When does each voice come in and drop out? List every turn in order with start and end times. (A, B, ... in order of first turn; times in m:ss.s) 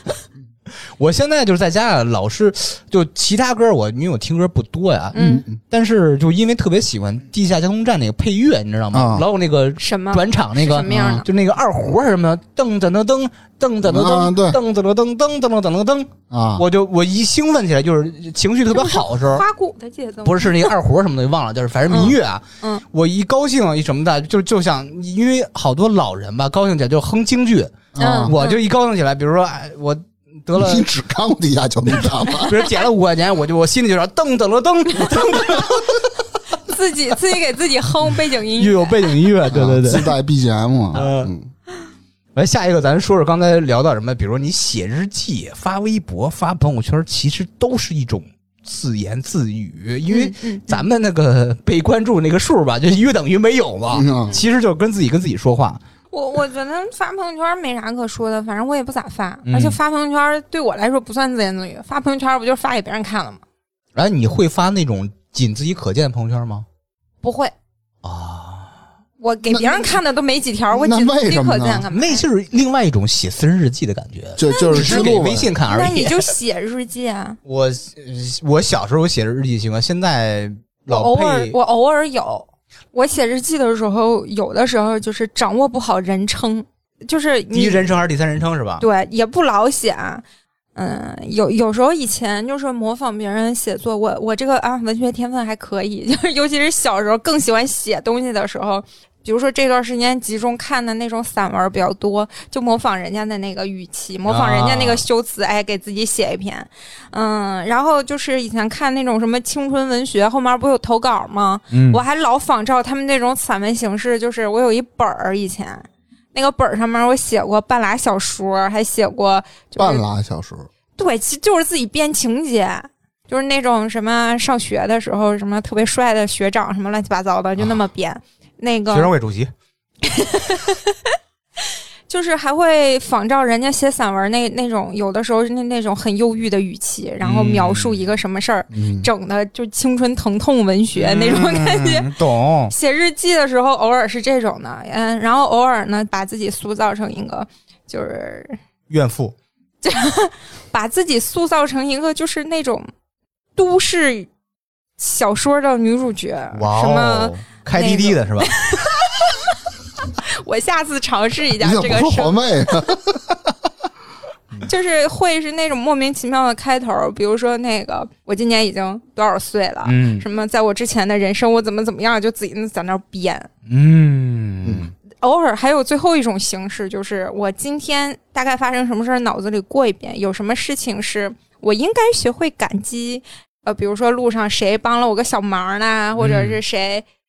0:01.0-0:19.4 A
0:05.2-0:05.4 B
0:05.2-0:05.6 C
0:08.9-0:09.2 C
0:09.8-0:11.3 B
0:13.8-0:14.6 C
0:16.3-0:16.7 C
0:18.7-0:20.7 B
0:20.2-0:30.9 A
0:21.9-0:22.8 B
0:28.0-0:28.3 C
0:28.0-0:28.6 B
0:30.6-0:32.6 C
0:32.4-0:36.1 A
0:36.6-0:39.2 B
0:38.5-0:40.1 A
0:39.5-0:41.5 C
0:40.9-0:41.3 A
0:42.4-0:55.8 A
0:50.1-0:50.8 B
0:53.9-0:54.4 C
0:56.1-1:03.4 B
0:59.4-0:59.8 A
1:04.0-1:06.6 A
1:07.2-1:07.5 B
1:08.0-1:08.7 A
1:09.2-1:12.2 B
1:09.5-1:10.0 C
1:10.8-1:11.8 C
1:11.9-1:16.3 A
1:14.4-1:15.5 C
1:14.5-1:17.4 B
1:17.5-1:21.6 A
1:20.9-1:28.0 B
1:27.5-1:28.8 A
1:28.8-1:30.2 B
1:30.8-2:00.0 B
1:44.3-1:45.0 A
1:51.7-1:52.0 A
1:59.8-2:00.7 C
2:01.0-2:09.1 B
2:08.9-2:09.5 A
2:10.0-2:11.0 B
2:12.1-2:22.1 B
2:17.2-2:18.0 A
2:18.7-2:19.1 C
2:21.0-2:22.7 A
2:22.7-2:28.6 B
2:28.9-2:29.4 A
2:29.8-2:32.9 B
2:33.6-2:34.3 B
2:35.0-2:39.5 B
2:36.5-2:38.5 A
2:40.2-2:42.9 B
2:41.6-2:43.4 C
2:44.6-2:53.5 B
2:49.8-2:50.2 A
2:53.7-2:54.9 A
2:54.6-2:54.9 C
2:55.2-3:07.0 B
3:06.2-3:06.6 A